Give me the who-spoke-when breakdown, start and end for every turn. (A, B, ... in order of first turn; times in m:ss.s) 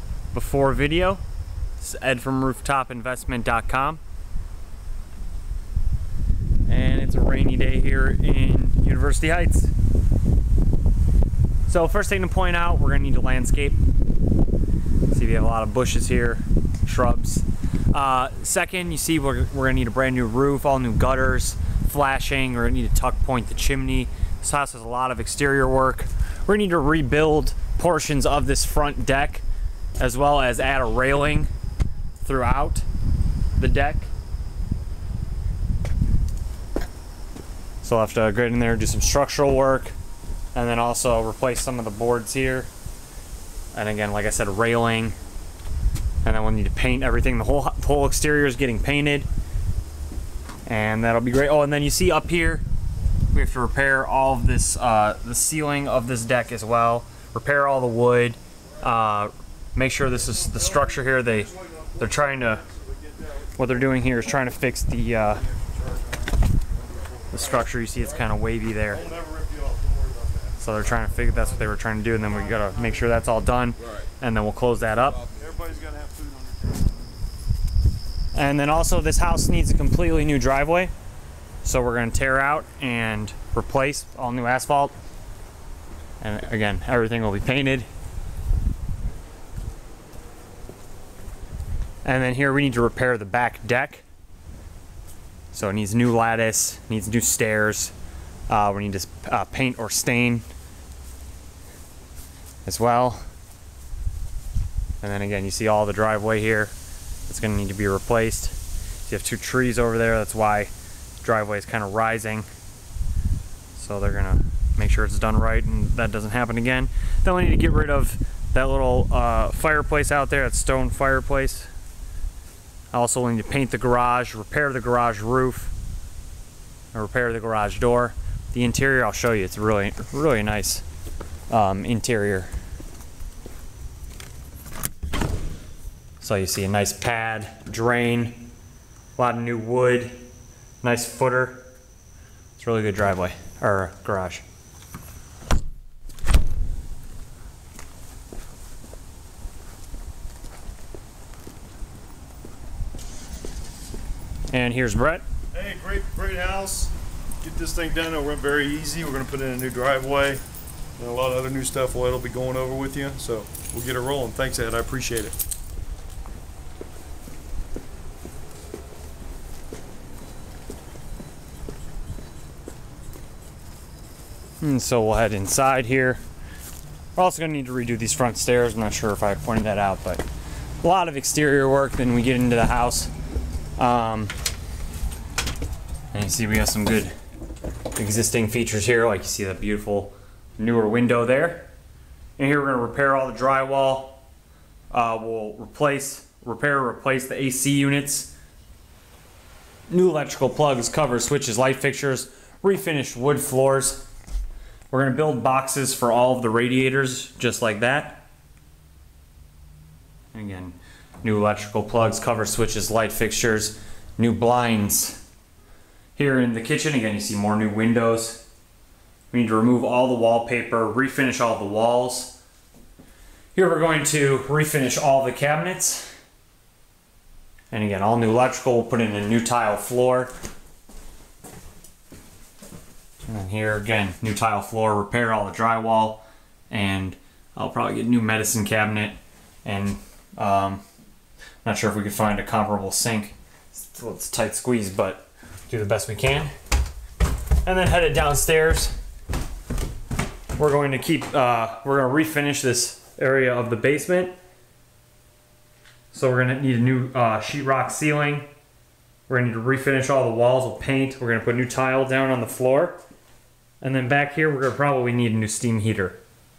0:00.3-0:01.2 A
0:01.8-0:04.0 A
0:06.7-0:09.7 A
0:11.7-0:13.8 A
0:15.1-0:29.4 A
0:30.0-0:31.5 A
0:32.2-0:32.8 A
0:33.6-0:34.1 A
0:37.8-0:39.9 A
0:40.6-0:42.7 A
0:43.7-0:45.2 A
0:46.2-0:49.3 A
0:50.7-0:52.6 A
0:53.3-1:02.6 A
1:00.5-1:04.2 B
1:03.6-1:05.4 A
1:05.4-1:06.3 B
1:07.0-1:07.6 B
1:07.3-1:09.0 A
1:08.9-1:11.7 B
1:10.6-1:15.2 A
1:12.2-1:13.1 B
1:15.4-1:17.0 B
1:18.3-1:20.9 A
1:21.6-1:24.9 A
1:26.2-1:27.9 A
1:32.0-1:34.0 A
1:35.5-1:37.9 A
1:38.5-1:40.4 A
1:42.6-1:43.2 A
1:45.0-1:46.7 A
1:47.3-1:50.7 A
1:51.2-1:52.5 A
1:53.8-2:01.7 A
2:02.9-2:05.7 A
2:06.9-2:10.8 A
2:11.5-2:12.5 A
2:16.2-2:18.5 A
2:19.2-2:20.2 A
2:20.8-2:21.6 A
2:22.6-2:24.4 A
2:34.5-2:35.2 A
2:35.5-2:40.4 B
2:41.0-2:45.4 B
2:54.6-2:56.2 A
2:57.2-3:00.2 A
3:00.8-3:03.1 A
3:03.8-3:04.3 A
3:06.1-3:07.1 A
3:08.0-3:11.7 A
3:12.4-3:14.2 A
3:14.9-3:18.3 A
3:19.9-3:24.1 A
3:24.9-3:28.2 A
3:30.3-3:35.2 A
3:36.2-3:38.4 A
3:39.3-3:42.4 A
3:43.6-3:46.1 A
3:47.7-3:50.3 A
3:53.2-4:00.8 A
4:01.6-4:06.5 A
4:07.6-4:09.0 A
4:10.6-4:14.3 A
4:16.1-4:18.5 A
4:19.3-4:23.0 A
4:23.8-4:26.2 A